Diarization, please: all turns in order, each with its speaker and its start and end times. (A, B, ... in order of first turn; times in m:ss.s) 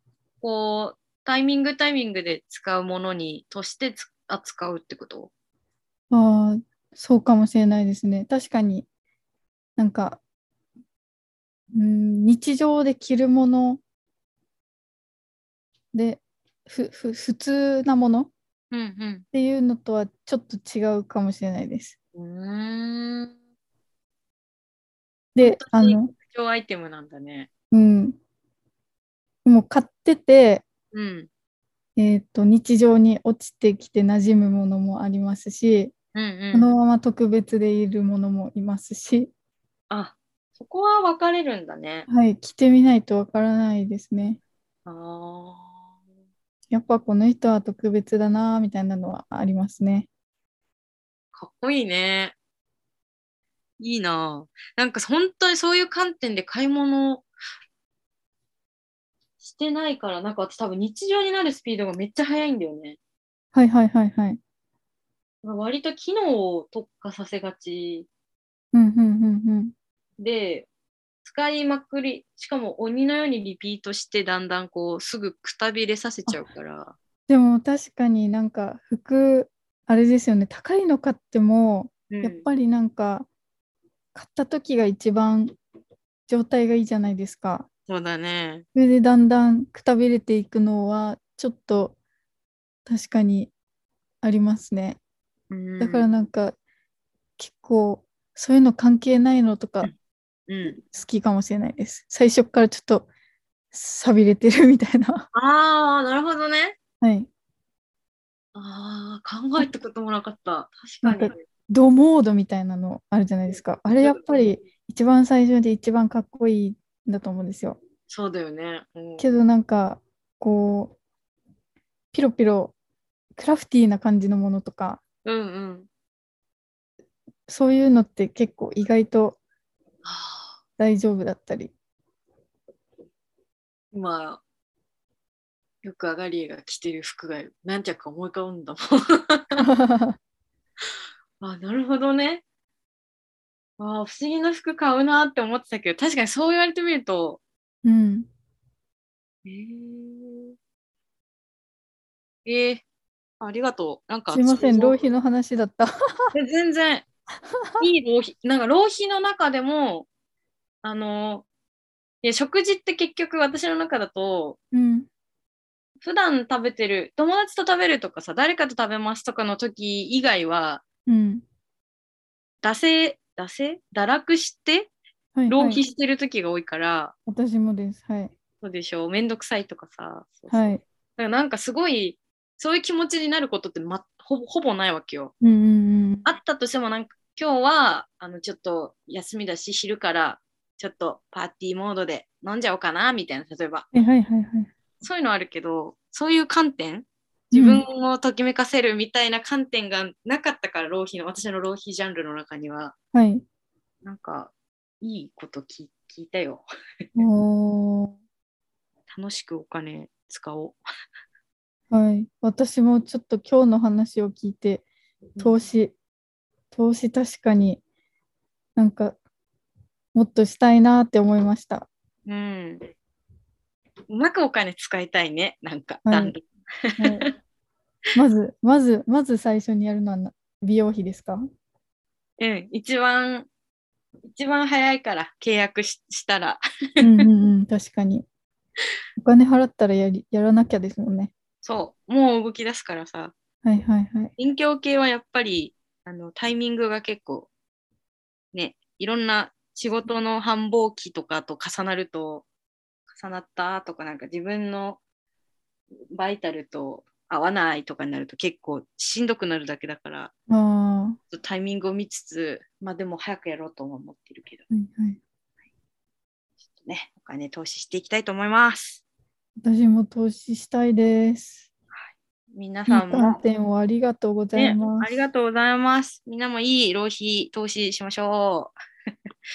0:00.4-0:05.3 A
0:06.1-0:08.8 B
0:09.8-0:10.2 B
0:11.7-0:13.8 B
0:15.9-0:18.3 B
0:18.7-0:19.2 A
0:19.3-0:21.9 B
0:22.1-0:23.3 A
0:25.4-0:26.1 B
0:25.4-0:27.5 A
0:27.7-0:28.2 B
0:29.4-0:30.6 B
0:30.9-0:31.3 A
0:32.0-0:35.9 B
0:36.1-0:36.7 A
0:36.5-0:39.3 B
0:39.9-0:42.1 A
0:42.1-0:44.4 B
0:44.8-0:45.9 A
0:46.7-0:50.1 B
0:51.3-0:52.3 A
0:53.8-0:57.2 A
0:59.4-1:03.0 A
1:03.5-1:04.4 B
1:05.4-1:08.1 A
1:08.7-1:09.7 B
1:10.2-1:10.7 A
1:11.2-1:16.9 A
1:17.3-1:23.3 B
1:22.1-1:22.4 A
1:24.1-1:25.6 B
1:26.3-1:27.7 B
1:27.9-1:28.6 A
1:28.7-1:32.0 B
1:32.8-1:33.5 B
1:34.2-1:35.0 B
1:35.5-1:36.2 A
1:35.8-1:36.6 B
1:37.4-1:39.9 B
1:40.5-1:40.8 A
1:40.7-1:43.1 B
1:43.7-1:45.2 B
1:45.3-1:46.8 A
1:47.0-1:47.3 B
1:48.5-1:51.4 A
1:51.0-1:57.8 B
1:53.9-1:54.5 A
1:58.1-1:59.4 A
1:59.2-2:00.9 B
2:02.1-2:02.7 B
2:03.4-2:05.0 B
2:05.2-2:05.9 A
2:07.5-2:09.4 B
2:10.0-2:10.6 A
2:10.8-2:11.7 B
2:13.9-2:14.4 A
2:15.8-2:19.6 A
2:19.6-2:20.2 B
2:21.4-2:22.4 A
2:23.8-2:27.4 A
2:27.8-2:28.3 B
2:29.4-2:30.5 A
2:32.4-2:32.8 A
2:33.4-2:35.0 A
2:34.3-2:35.9 B
2:36.3-2:37.0 A
2:37.8-2:40.1 A
2:40.8-2:41.4 A
2:42.2-2:44.6 A
2:44.7-2:45.1 B
2:46.0-2:50.8 A
2:51.1-2:51.4 B
2:52.6-2:54.9 A
2:55.4-2:55.8 B
2:55.5-2:57.1 A
2:57.3-2:58.3 B
2:58.6-3:05.3 A
3:00.5-3:00.8 B
3:05.4-3:06.3 B
3:06.2-3:13.9 A
3:13.9-3:14.7 B
3:15.0-3:22.9 A
3:17.5-3:17.8 B
3:23.1-3:23.4 B
3:24.0-3:26.6 A
3:27.2-3:28.1 B
3:29.1-3:30.8 A
3:31.9-3:34.8 B
3:35.4-3:35.9 B
3:36.7-3:37.8 B
3:38.8-3:39.2 B
3:40.1-3:41.9 B
3:42.3-3:42.8 A
3:44.1-3:47.3 A
3:46.0-3:46.4 B
3:47.0-3:47.3 B
3:48.1-3:51.4 B
3:52.4-3:53.5 A
3:54.2-3:57.2 A
3:57.0-3:58.2 B
3:59.2-4:01.3 B
4:01.6-4:03.3 A
4:03.6-4:04.3 B
4:04.4-4:07.5 A
4:08.5-4:12.4 A
4:13.1-4:15.0 A
4:16.1-4:20.3 A
4:20.5-4:21.2 B
4:21.3-4:24.6 A
4:24.7-4:25.2 B
4:26.8-4:29.0 A
4:29.6-4:31.7 B
4:31.9-4:33.4 A
4:32.9-4:35.3 B
4:34.5-4:38.7 A